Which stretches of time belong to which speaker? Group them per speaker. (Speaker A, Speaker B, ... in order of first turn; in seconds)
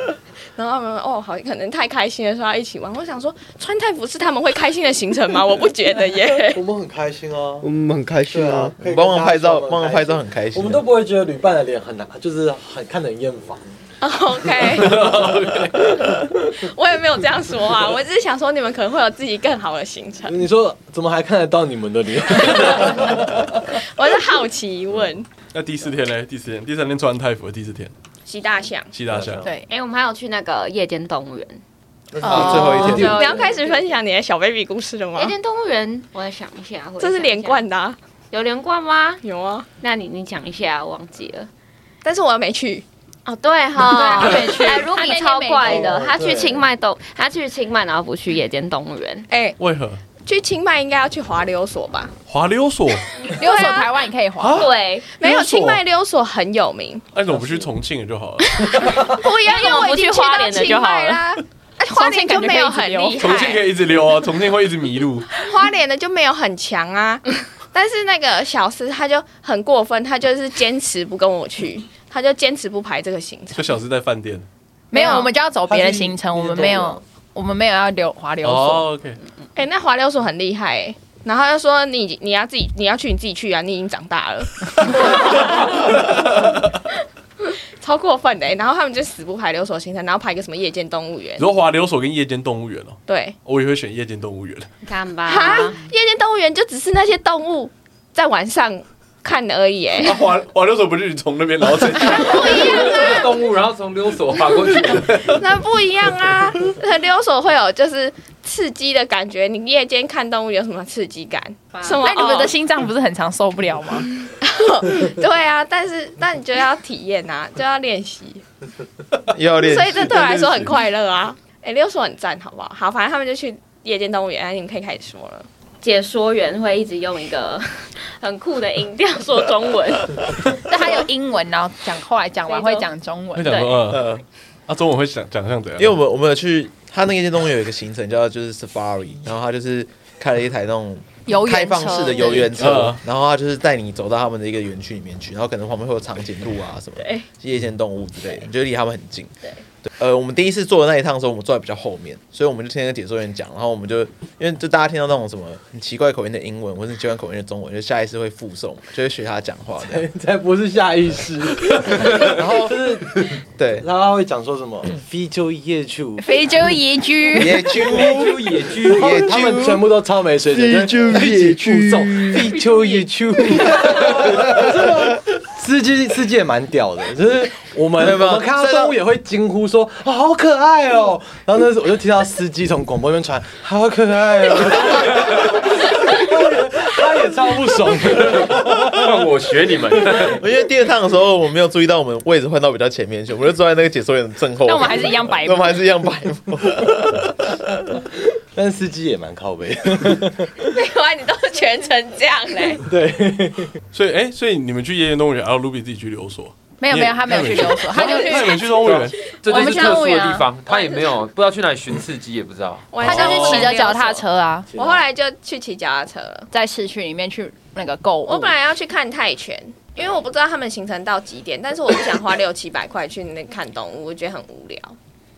Speaker A: 0.6-6.6, 14.0-15.2, 16.5-20.4, 23.8-25.3, 28.2-28.9, 32.3-35.3, 37.0-38.0, 39.2-39.7, 42.0-42.8, 43.8-44.7, 49.3-49.6, 50.2-52.1, 53.2-53.9, 55.1-57.1, 58.6-63.7, 65.3-73.8, 74.9-75.3, 79.5-86.3, 87.4-91.5, 93.1-93.4, 95.2-100.2, 102.0-103.5, 105.2-112.5, 114.2-118.4, 119.5-125.5, 200.7-202.8, 207.8-210.1, 210.7-211.2, 212.9-216.5, 218.3-224.9
Speaker B: 6.5-7.7, 8.3-13.7, 20.3-23.4, 29.1-29.5, 32.1-33.3, 45.6-46.6, 57.3-57.7, 75.7-77.0, 159.8-166.5, 167.9-168.2, 168.8-189.1, 198.5-200.6, 202.8-203.7, 214.7-215.0
Speaker C: 7.6-8.7, 170.5-172.6
Speaker D: 8.8-10.8, 32.2-33.2, 119.3-120.1, 133.9-134.2, 135.8-149.3, 149.9-160.1, 162.0-163.0, 163.6-163.8, 167.3-169.8, 178.0-178.9, 190.3-197.5
Speaker E: 14.8-16.1, 25.5-27.9, 28.9-29.4, 49.6-50.0, 52.3-53.0, 54.4-55.8, 57.1-58.9, 63.2-65.3, 73.5-74.4, 78.4-79.2, 91.4-94.7, 100.0-102.6, 120.1-120.7, 133.3-134.2, 134.7-135.9, 142.6-143.0, 203.9-209.2, 213.1-213.7
Speaker F: 29.7-31.6, 32.2-34.0, 35.1-37.6, 38.3-39.2, 39.8-41.5, 43.2-49.3, 54.5-55.1, 59.1-61.3, 94.8-95.8, 125.8-130.9, 132.5-132.9, 133.4-133.7
Speaker G: 32.3-32.9, 44.0-45.9, 53.4-54.7, 61.8-63.3, 74.9-78.9, 111.8-114.1, 130.6-133.7, 141.3-142.5, 166.2-167.7, 194.6-195.8, 206.8-208.6, 209.5-210.4, 213.0-214.7, 216.5-218.5
Speaker H: 102.2-105.3, 167.7-169.3, 172.6-173.6, 188.1-190.4, 208.7-212.9